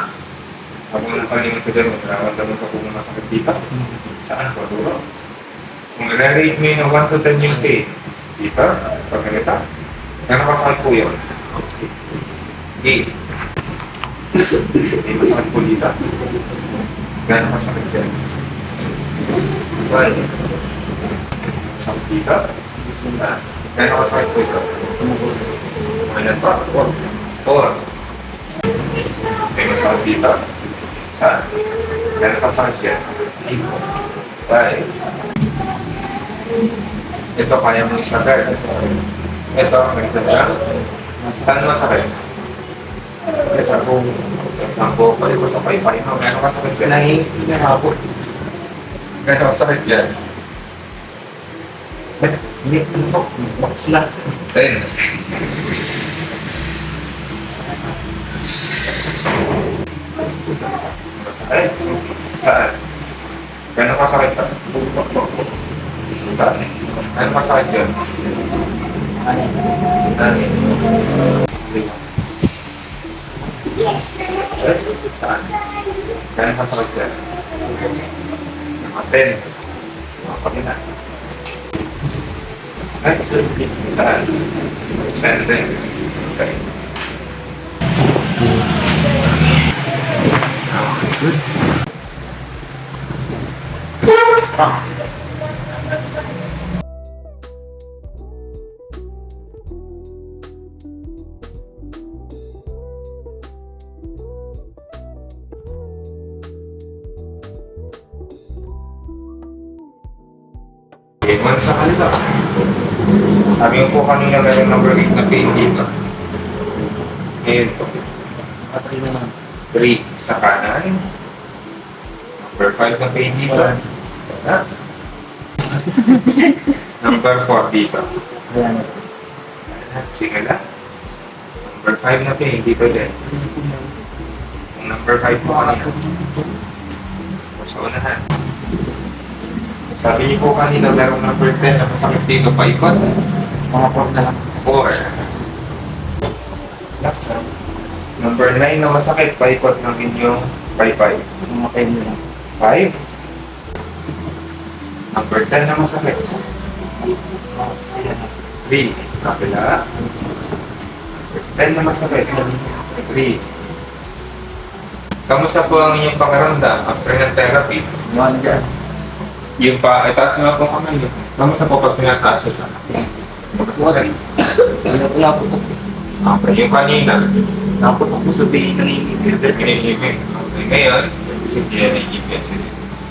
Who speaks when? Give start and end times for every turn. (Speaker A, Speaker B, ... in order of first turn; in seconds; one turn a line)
Speaker A: 0.9-5.0
Speaker A: 6.0-9.6
Speaker A: 10.3-11.3
Speaker A: 12.8-13.1
Speaker A: 14.8-16.0
Speaker A: 17.3-18.1
Speaker A: 19.9-20.4
Speaker A: 21.6-22.5
Speaker B: 22.9-23.2
Speaker A: 23.1-24.8
Speaker B: 25.0-25.5
Speaker A: 26.1-27.8
Speaker A: 29.4-30.5
Speaker A: 31.1-31.5
Speaker A: 32.2-33.8
Speaker A: 34.5-35.0
Speaker A: 37.4-38.9
Speaker A: 39.5-40.6
Speaker B: 41.2-41.5
Speaker A: 41.3-42.2
Speaker A: 43.5-47.1
Speaker B: 47.0-48.0
Speaker A: 49.2-50.2
Speaker B: 52.2-54.3
Speaker A: 54.5-55.1
Speaker A: 61.1-62.8
Speaker A: 63.8-64.7
Speaker B: 64.7-65.4
Speaker A: 66.2-67.9
Speaker B: 69.2-69.7
Speaker A: 70.1-70.7
Speaker A: 71.6-72.0
Speaker A: 73.8-75.6
Speaker A: 76.3-77.2
Speaker A: 78.8-79.5
Speaker A: 80.2-80.8
Speaker A: 82.8-84.4
Speaker A: 85.0-86.5
Speaker A: 90.7-91.3
Speaker A: 111.2-112.3
Speaker A: 113.5-115.9
Speaker A: 117.4-118.1
Speaker B: 118.7-119.3
Speaker A: 119.7-121.0
Speaker A: 122.4-124.6
Speaker A: 127.0-128.2
Speaker B: 128.5-129.0
Speaker A: 129.7-130.6
Speaker A: 131.6-133.3
Speaker A: 134.7-136.0
Speaker B: 135.9-136.3
Speaker A: 137.6-138.2
Speaker A: 139.9-143.2
Speaker B: 143.7-144.5
Speaker A: 144.6-145.2
Speaker A: 147.0-147.5
Speaker A: 148.2-151.3
Speaker B: 151.5-152.2
Speaker A: 152.6-153.0
Speaker A: 155.1-156.4
Speaker B: 157.3-158.3
Speaker A: 158.7-159.8
Speaker A: 161.2-163.4
Speaker A: 165.3-167.9
Speaker B: 168.1-168.7
Speaker A: 169.6-173.0
Speaker A: 173.5-174.2
Speaker B: 173.8-174.2
Speaker B: 174.7-175.7
Speaker A: 176.2-177.3
Speaker B: 177.8-179.8
Speaker A: 179.5-182.8